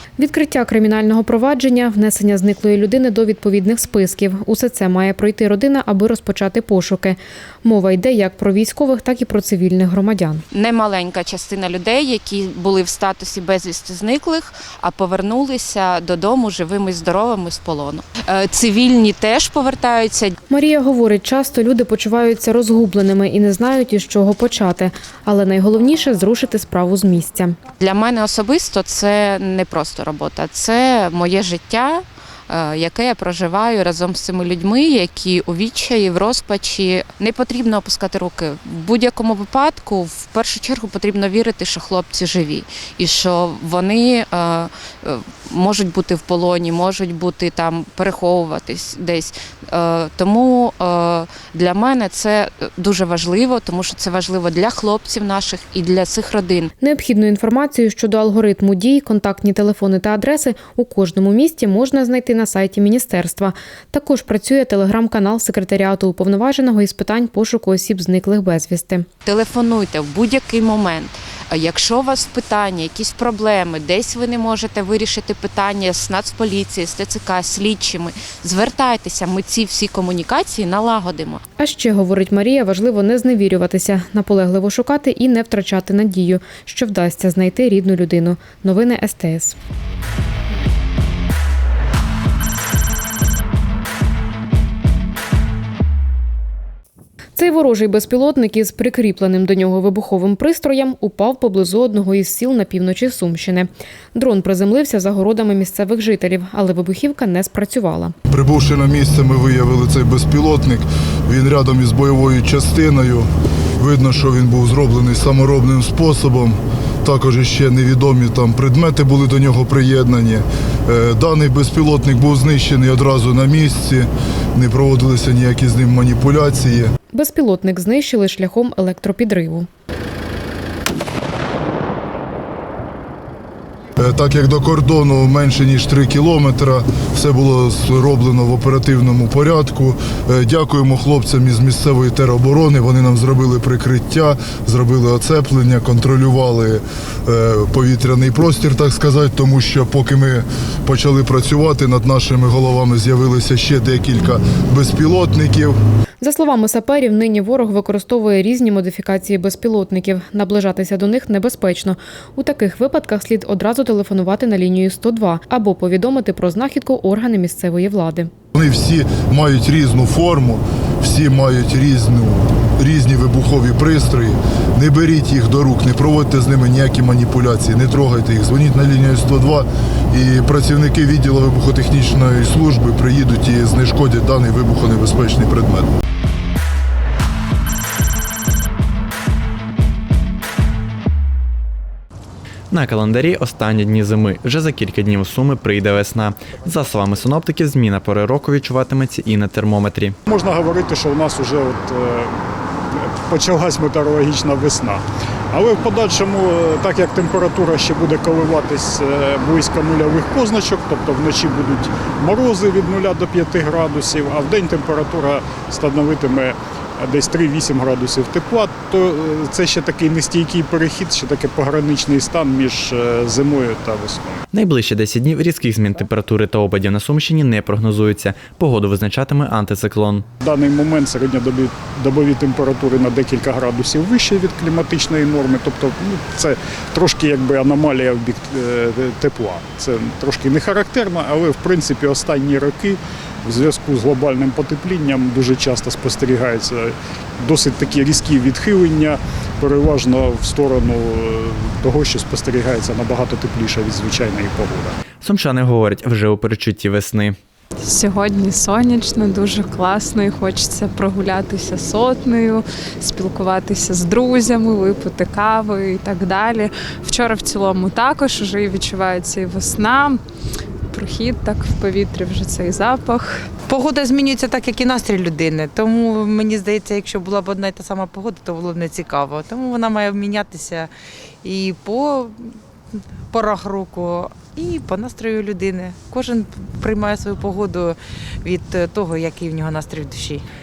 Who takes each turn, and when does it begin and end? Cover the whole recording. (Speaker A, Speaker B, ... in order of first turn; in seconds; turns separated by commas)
Speaker A: 0.2-10.4, Speaker B: 10.5-20.4, Speaker A: 20.5-27.6, Speaker B: 27.8-56.7, Speaker A: 56.8-69.1, Speaker B: 69.2-81.4, Speaker A: 81.6-89.5, Speaker A: 97.3-108.1, Speaker C: 108.3-126.9, Speaker A: 127.1-129.7, Speaker C: 134.0-155.8, Speaker A: 156.2-168.3, Speaker C: 168.5-185.9, Speaker D: 192.7-200.2, Speaker E: 200.3-202.3, Speaker E: 202.9-224.4, Speaker D: 224.5-230.2, Speaker E: 230.4-254.9, Speaker D: 255.2-257.4, Speaker F: 257.8-270.2, Speaker F: 270.9-273.5, Speaker G: 273.7-280.9, Speaker G: 281.4-290.4